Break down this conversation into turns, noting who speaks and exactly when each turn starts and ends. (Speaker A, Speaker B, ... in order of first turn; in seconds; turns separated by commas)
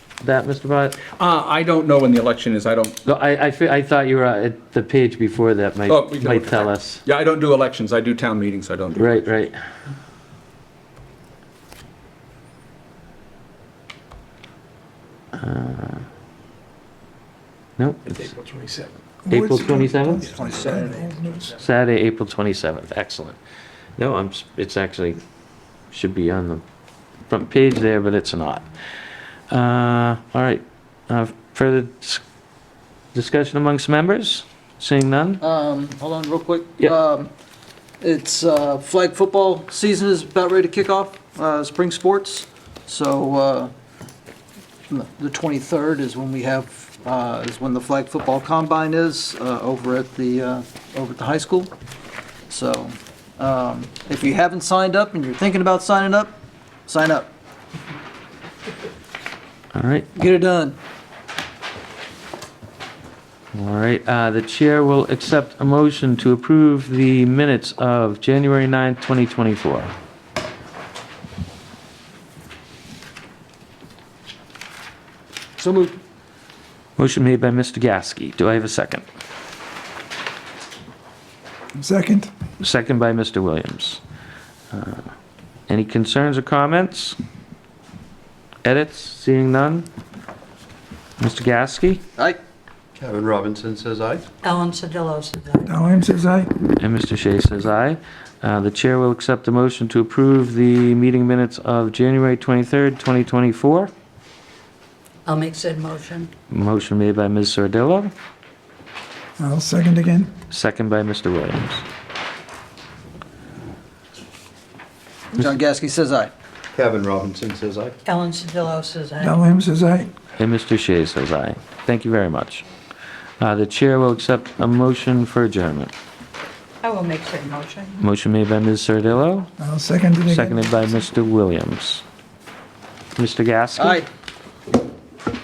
Speaker A: 0.2-1.0, Speaker B: 1.1-3.0, Speaker A: 3.0-7.0, Speaker B: 5.9-9.2, Speaker A: 9.0-9.5, Speaker A: 15.3-16.0, Speaker A: 17.8-18.3, Speaker B: 18.2-18.9, Speaker C: 19.2-21.5, Speaker A: 19.3-20.3, Speaker D: 20.4-20.9, Speaker A: 21.5-23.4, Speaker A: 24.0-25.2, Speaker A: 25.9-26.6, Speaker A: 27.3-28.6, Speaker A: 29.5-32.2, Speaker A: 33.1-35.4, Speaker D: 35.4-37.3, Speaker D: 38.0-43.7, Speaker D: 44.9-51.7, Speaker D: 52.5-57.3, Speaker A: 59.7-60.1, Speaker D: 60.1-60.8, Speaker A: 63.5-69.9, Speaker D: 75.6-76.0, Speaker A: 77.0-79.0, Speaker C: 81.8-82.3, Speaker A: 82.6-84.0, Speaker A: 84.7-85.1, Speaker A: 85.7-87.2, Speaker A: 88.6-89.9, Speaker A: 91.2-92.0, Speaker E: 93.0-94.3, Speaker F: 94.4-95.7, Speaker C: 95.7-96.5, Speaker A: 96.8-103.9, Speaker F: 105.2-106.3, Speaker A: 106.5-108.1, Speaker C: 109.4-110.3, Speaker A: 110.5-111.8, Speaker D: 115.3-116.3, Speaker E: 116.7-118.0, Speaker F: 118.0-119.4, Speaker C: 119.2-120.1, Speaker A: 120.4-122.6, Speaker A: 123.4-125.9, Speaker F: 126.8-128.0, Speaker A: 128.0-129.5, Speaker C: 129.6-130.6, Speaker A: 130.3-132.0, Speaker A: 133.2-134.0, Speaker D: 133.8-134.1